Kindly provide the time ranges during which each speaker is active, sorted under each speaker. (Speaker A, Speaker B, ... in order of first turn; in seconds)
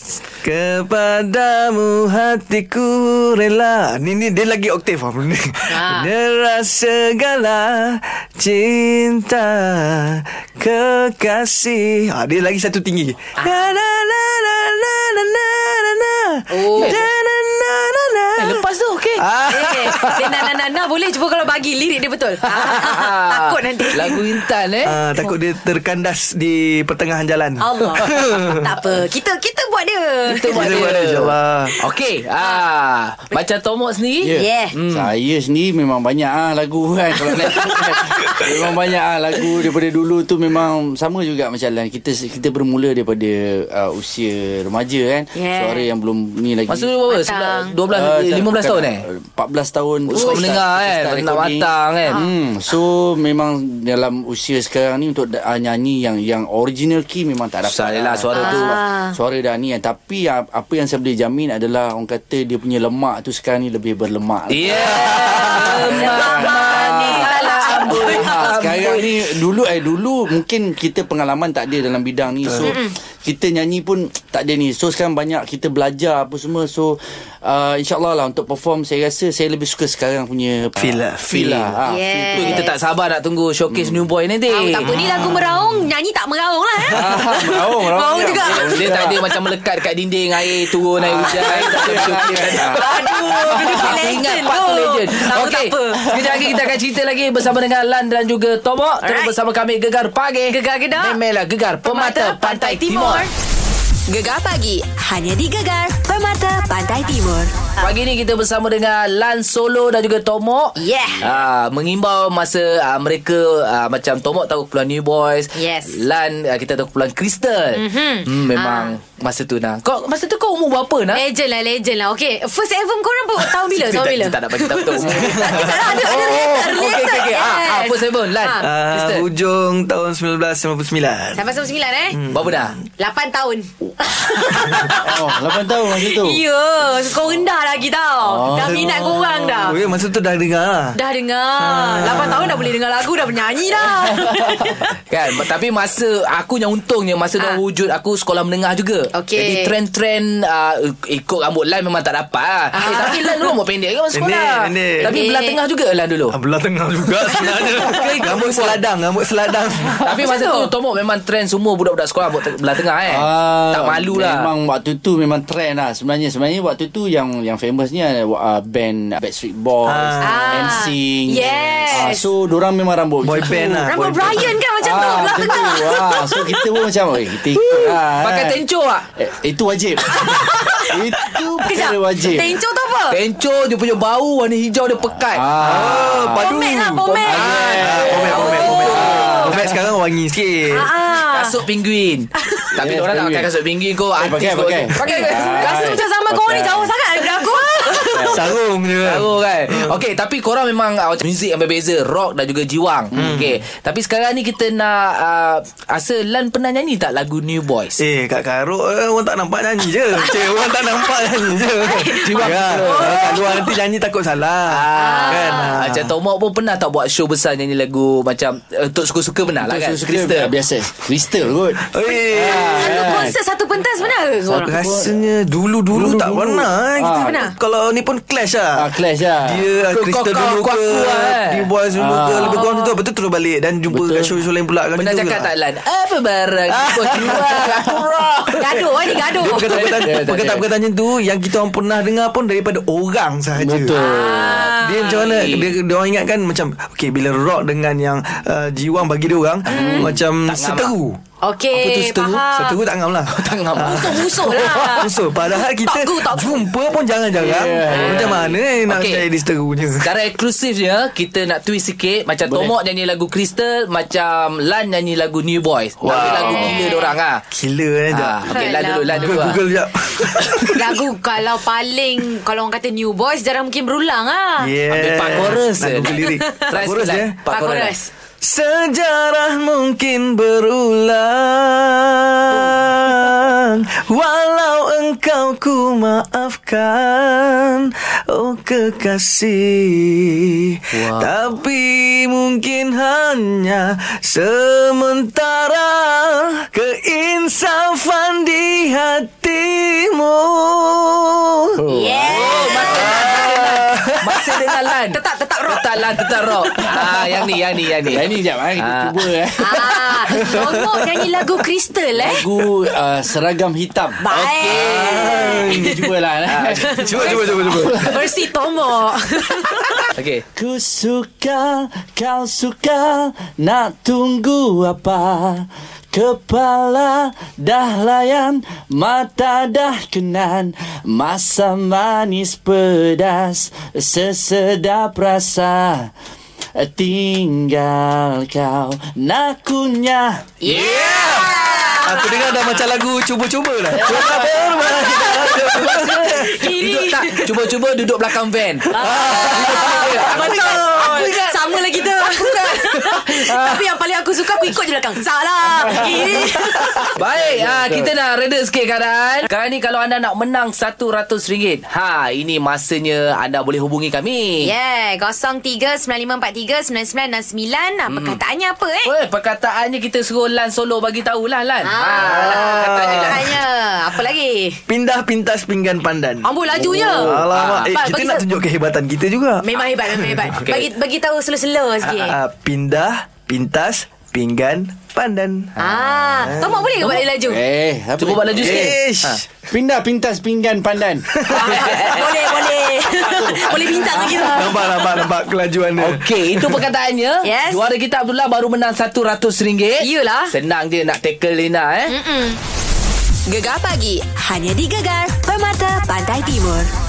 Speaker A: 0.4-18.6, 19.2-20.4, 24.9-28.8, 30.5-31.8, 72.5-72.8, 80.8-81.3, 84.9-85.5, 92.9-93.7, 125.2-126.2, 128.6-131.6, 132.1-132.8, 138.5-141.0, 141.6-142.8, 154.1-155.2, 156.3-160.1, 169.9-170.8, 173.2-174.6, 185.6-190.9, 198.2-200.0, 203.2-203.6, 208.0-216.1, 221.8-223.2, 224.6-228.8, 229.4-235.5, 236.7-244.0, 244.7-251.2, 251.9-260.1, 266.0-266.9, 267.5-271.0, 274.6-277.4, 278.4-301.8, 302.4-304.9, 310.3-311.5, 314.6-316.1, 316.9-318.3, 340.7-346.7, 348.8-352.0, 372.1-373.6, 374.9-380.9, 382.1-385.7, 386.4-386.9, 388.5-389.5, 391.3-392.7, 393.4-396.8
Speaker B: 5.7-6.1, 13.4-13.8, 16.5-17.1, 19.5-24.4, 27.6-30.9, 32.4-32.6, 34.3-34.8, 37.9-38.4, 45.4-45.9, 47.1-47.8, 50.1-50.5, 58.3-59.2, 65.1-68.5, 72.7-72.9, 81.9-82.8, 84.5-89.3, 91.3-96.4, 99.0-99.3, 100.5-101.2, 101.8-103.3, 110.8-111.3, 115.5-116.0, 117.8-119.0, 121.1-128.6, 131.4-132.2, 133.0-139.8, 141.0-144.8, 149.1-149.8, 152.7-153.6, 155.0-155.6, 157.2-158.0, 160.2-160.7, 170.2-172.3, 173.8-176.7, 180.1-183.2, 186.4-189.6, 190.7-191.6, 192.4-192.7, 195.0-198.5, 210.2-213.8, 214.9-215.8, 222.8-224.9, 227.1-227.5, 232.4-232.9, 238.6-239.9, 243.9-245.4, 249.7-250.1, 251.4-252.8, 253.8-256.7, 257.9-258.5, 266.3-267.1, 268.5-269.5, 270.6-274.7, 276.1-276.7, 277.5-278.1, 301.9-303.9, 305.1-306.9, 309.6-312.5, 314.2-316.1, 316.9-320.1, 340.6-342.8, 344.0-347.7, 348.9-357.1, 364.6-369.1, 371.8-374.8, 376.4-377.3, 377.9-378.5, 379.6-382.4, 385.8-387.6, 391.5-395.2, 397.4-397.9, 400.0-400.5, 402.1-402.6
Speaker C: 16.8-17.0, 18.4-19.3, 22.5-25.0, 30.3-35.1, 46.7-49.0, 50.1-52.2, 57.6-58.8, 64.5-69.3, 81.3-81.7, 82.4-85.0, 88.4-103.3, 107.8-121.2, 123.4-129.2, 132.3-132.8, 145.1-156.3, 157.8-158.8, 160.0-164.5, 177.6-179.1, 183.1-186.1, 187.2-189.4, 191.1-196.0, 199.0-208.0, 212.2-213.4, 214.7-220.5, 229.9-231.7, 234.9-238.6, 239.7-240.5, 245.1-245.7, 250.4-250.9, 251.8-252.4, 253.3-254.3, 258.0-259.3, 259.9-267.4, 268.1-269.6, 274.9-276.2, 276.7-277.9, 290.9-291.3, 302.2-309.2, 314.3-315.7, 316.5-317.0, 320.1-320.4, 340.7-341.3, 345.8-351.4, 357.2-364.7, 368.1-368.4, 369.0-373.6, 376.8-378.0, 388.2-389.4, 391.5-392.2, 396.0-402.2
Speaker D: 34.2-46.9, 47.9-82.7, 83.7-84.0, 86.9-89.2, 91.0-92.8, 134.9-136.4, 138.2-139.8, 144.2-144.5, 163.1-173.9, 174.8-178.6, 179.2-182.6, 185.3-186.5, 187.2-189.8, 192.7-193.5, 194.2-197.0, 198.1-198.5, 203.1-203.5, 219.6-223.4, 224.5-225.2, 225.9-227.4, 228.8-229.7, 231.9-232.7, 233.9-234.3, 240.0-240.6, 243.6-244.7, 249.7-250.2, 257.3-258.4, 262.4-262.7, 301.8-302.7, 308.1-310.5, 312.1-314.2, 315.8-318.2, 320.6-336.1, 336.8-340.5, 344.1-344.7, 355.7-358.1, 387.0-389.0, 389.7-391.4, 393.3-393.6
Speaker E: 104.1-107.5, 403.5-406.9